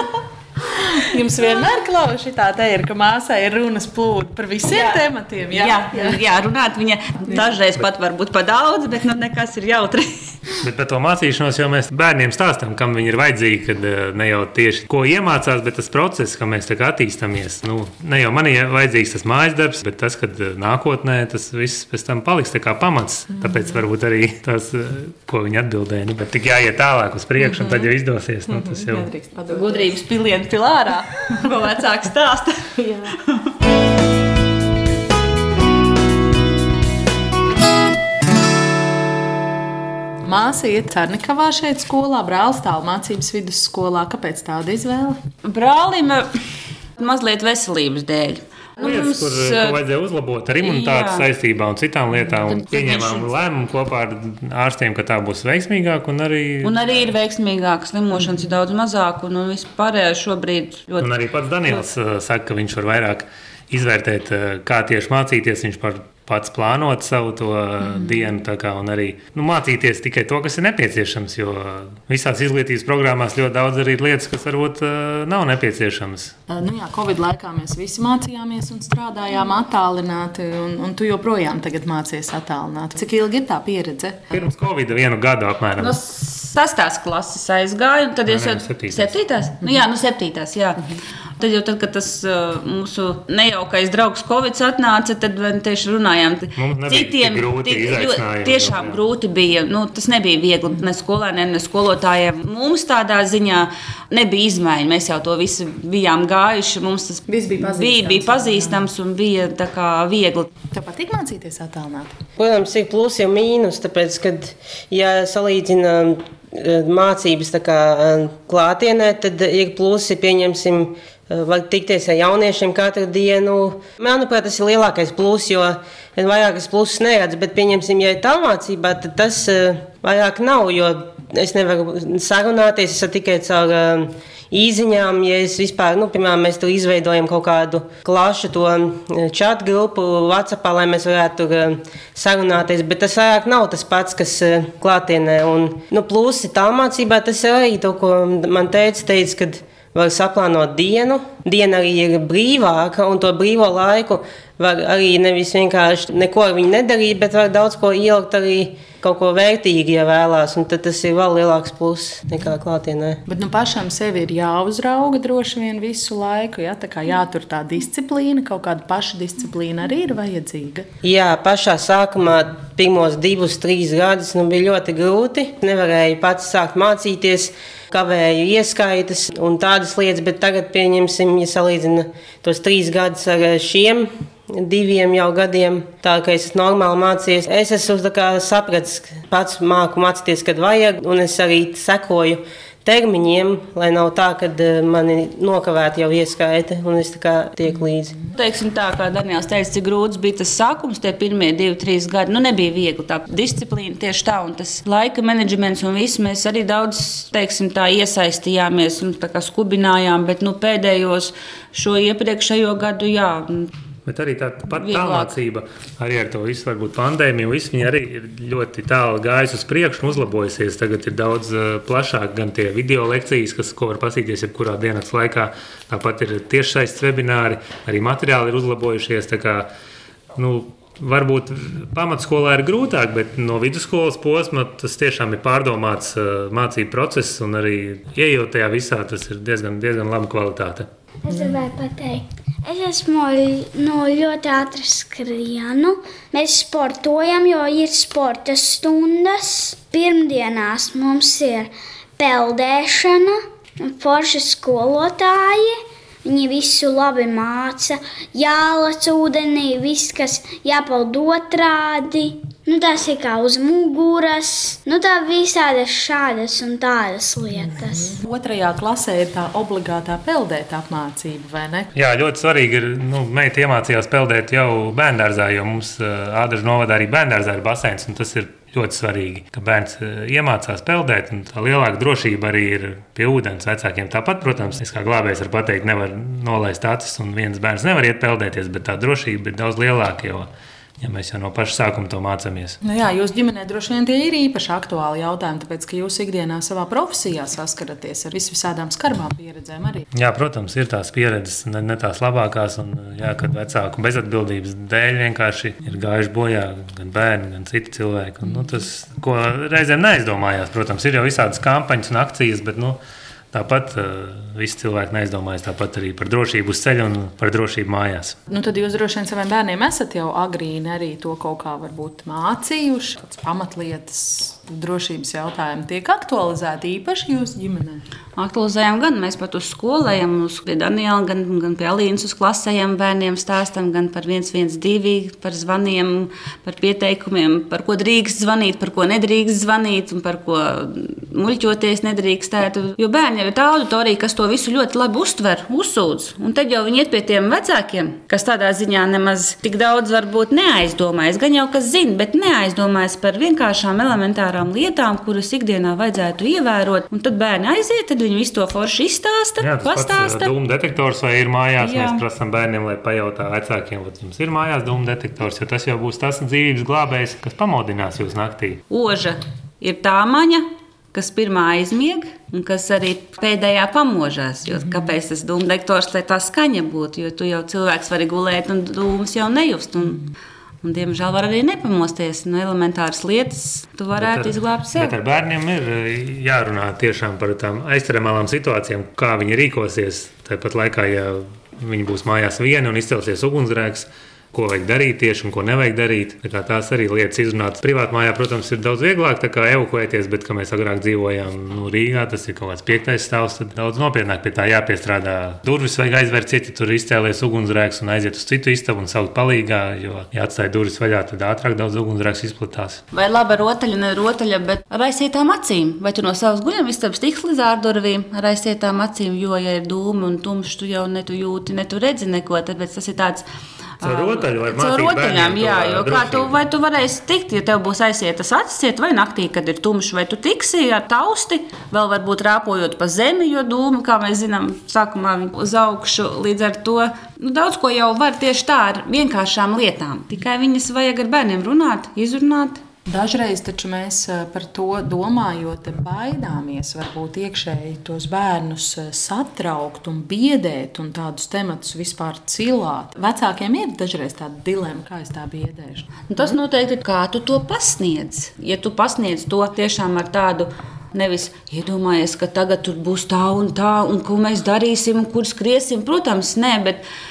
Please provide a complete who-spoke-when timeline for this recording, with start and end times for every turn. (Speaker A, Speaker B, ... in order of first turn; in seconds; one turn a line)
Speaker A: 0.8-6.2
Speaker B: 4.7-10.5
Speaker A: 7.3-7.5
Speaker C: 10.6-29.1
Speaker A: 23.4-23.7
Speaker A: 28.5-29.9
Speaker B: 29.5-32.7
Speaker A: 32.8-33.1
Speaker A: 40.2-45.2
Speaker B: 45.4-46.3
Speaker B: 47.0-49.8
Speaker C: 48.8-57.1
Speaker B: 50.6-51.2
Speaker B: 52.5-53.3
Speaker B: 56.6-61.8
Speaker C: 61.0-76.3
Speaker A: 67.9-68.3
Speaker A: 76.5-84.2
Speaker C: 84.3-86.0
Speaker B: 85.8-110.5
Speaker C: 88.3-89.1
Speaker C: 96.5-99.0
Speaker A: 107.3-108.9
Speaker A: 110.7-112.2
Speaker D: 112.4-163.2
Speaker A: 163.3-170.9
Speaker D: 171.0-198.1
Speaker B: 198.3-213.7
Speaker C: 214.1-229.7
Speaker B: 214.8-215.3
Speaker C: 230.3-240.9
Speaker E: 241.2-268.1
Speaker A: 241.3-241.6
Speaker A: 267.7-271.9
Speaker C: 271.9-290.5
Speaker C: 291.0-292.8
Speaker A: 292.8-300.1
Speaker C: 300.1-313.0
Speaker C: 313.5-318.4
Speaker A: 318.5-328.0
Speaker B: 328.4-360.5
Speaker C: 359.6-368.8
Speaker B: 361.8-362.2
Speaker B: 368.9-385.1
Speaker C: 384.2-413.0
Speaker B: 413.1-423.5
Speaker B: 424.0-442.8
Speaker C: 424.0-426.6
Speaker A: 443.1-456.5
Speaker B: 456.3-467.0